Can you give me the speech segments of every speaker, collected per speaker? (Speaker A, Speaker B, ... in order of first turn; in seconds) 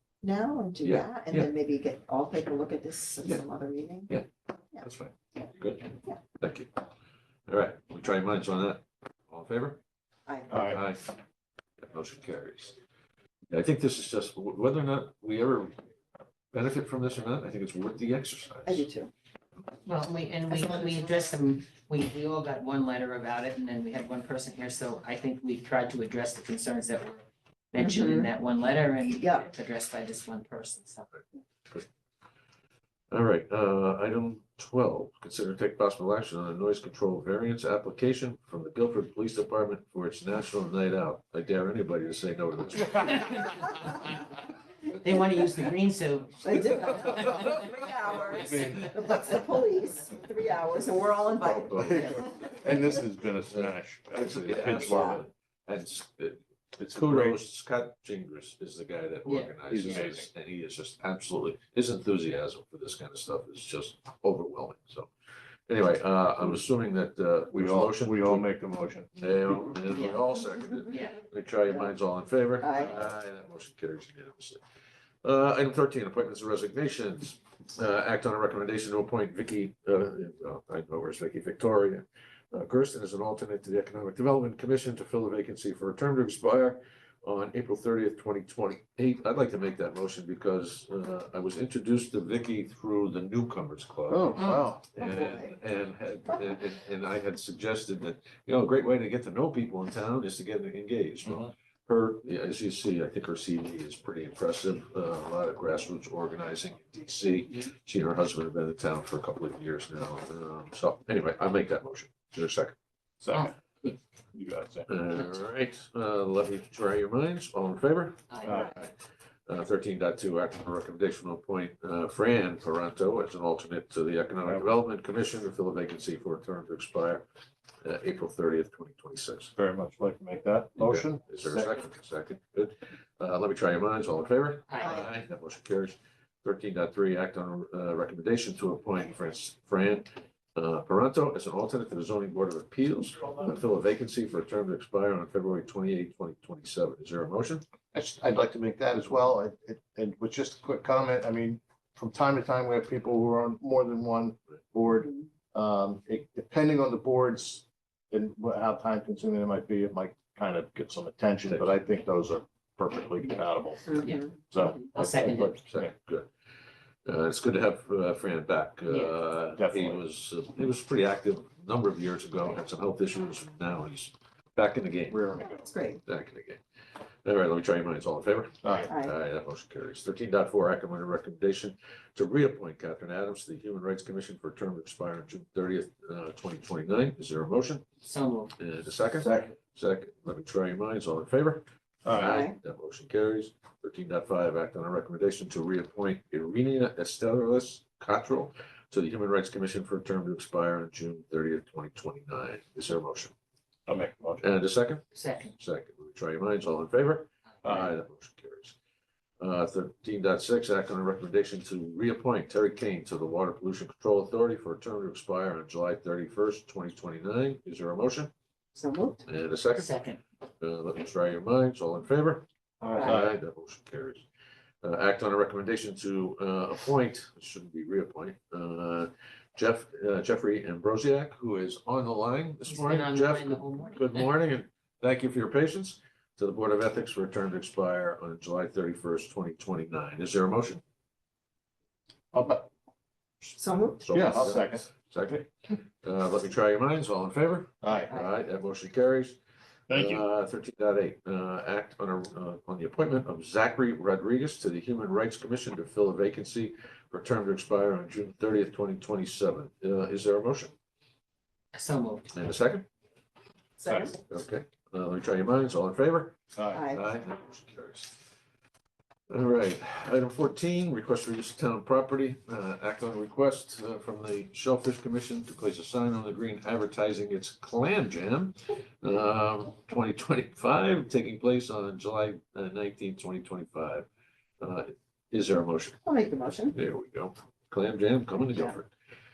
Speaker A: 0.2-4.1, 10.3-10.6, 18.6-19.1, 20.5-21.3, 27.8-28.3, 29.1-29.5, 46.4-52.2, 69.9-70.2, 72.6-73.0, 95.0-95.6, 134.8-135.1, 163.9-164.2, 175.4-176.0, 178.9-179.1, 192.2-192.5, 218.7-219.2, 222.8-223.1, 243.6-244.1, 263.8-264.1, 266.7-267.0, 286.0-286.8
Speaker B: 0.8-1.5, 4.8-6.7, 7.5-9.8, 10.6-11.1, 11.8-12.8, 13.5-15.8, 16.5-18.8, 33.1-43.7, 51.6-52.7, 53.5-65.1, 65.7-68.5, 69.2-74.6, 75.2-112.7, 114.9-118.9, 119.5-127.2, 127.8-129.5, 130.8-147.6, 165.4-166.3, 167.0-175.2, 176.0-176.6, 177.2-187.8, 188.6-203.3, 204.4-208.8, 209.4-218.3, 219.2-219.9, 220.6-222.5, 223.0-224.2, 224.8-240.8, 243.9-249.4, 249.9-260.7, 262.3-262.9, 263.9-268.1, 269.3-284.1, 284.6-286.0, 286.7-288.9
Speaker C: 10.5-10.8, 48.2-49.3, 51.6-55.2, 56.8-57.4, 59.7-60.3, 67.5-69.1, 94.1-94.9, 113.2-114.9, 118.4-118.8, 124.4-124.7, 129.5-131.8, 147.9-165.9, 169.5-170.0, 175.1-175.7, 178.6-178.9, 189.2-189.5, 192.0-192.4, 203.9-204.4, 207.6-207.9, 222.8-223.3, 242.3-242.7, 244.1-244.9, 247.8-248.1, 249.9-250.2, 266.5-266.8
Speaker D: 19.8-31.1, 44.9-47.5, 51.9-52.2, 59.2-59.5, 94.4-94.6, 118.3-118.6, 134.7-135.1, 164.0-165.6, 168.9-169.1, 188.0-188.5, 205.1-205.5, 219.7-220.2, 232.7-234.3, 261.7-262.3